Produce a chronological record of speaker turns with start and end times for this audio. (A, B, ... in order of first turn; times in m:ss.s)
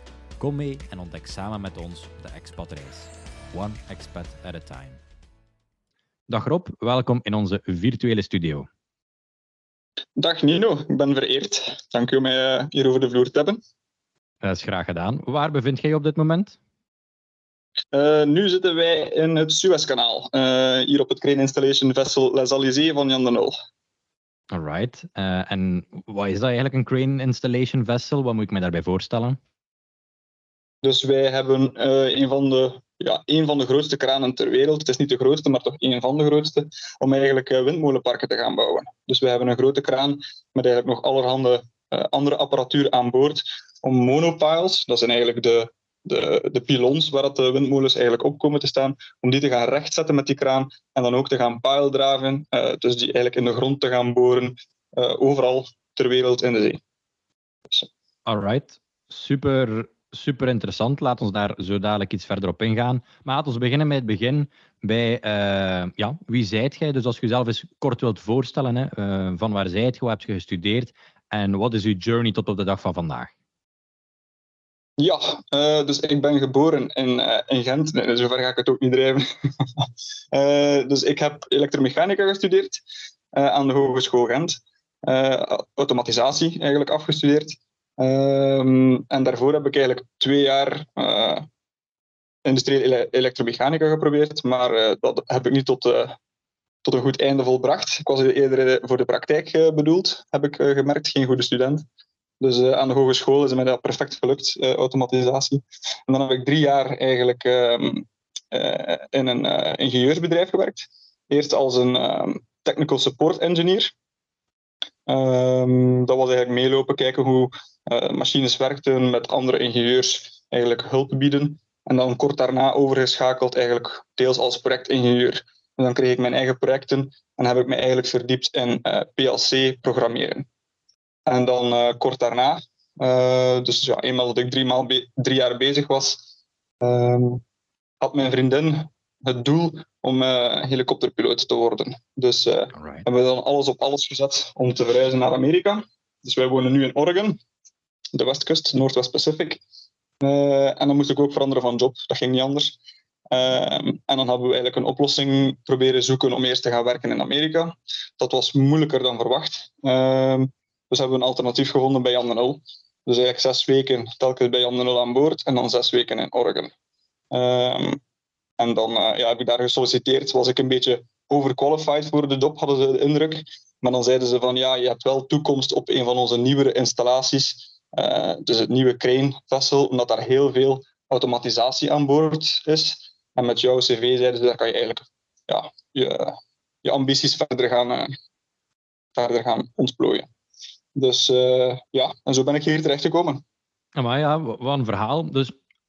0:00.4-0:05.0 A
0:06.3-0:08.7 A
0:10.2-0:13.6 B
0:14.4-0:16.6 A
0:17.9-0:23.6 B
0:24.5-0:29.4 A
0:30.8-0:56.8 B
0:58.3-1:13.3 A
1:15.0-1:19.2 B
1:19.8-1:22.8 B
1:23.3-1:31.5 B
1:32.4-1:36.2 B
1:36.8-1:41.8 B
1:42.4-1:53.9 B
1:55.1-2:10.5 B
2:11.3-2:16.2 B
2:16.8-2:17.4 B
2:18.0-2:27.4 B
2:22.8-2:23.1 A
2:28.1-2:29.6 B
2:30.2-2:32.8 B
2:33.3-2:46.7 B
2:47.3-2:48.0 B
2:48.6-3:08.1 B
3:09.2-3:10.3 B
3:11.0-3:13.4 B
3:14.0-3:15.5 A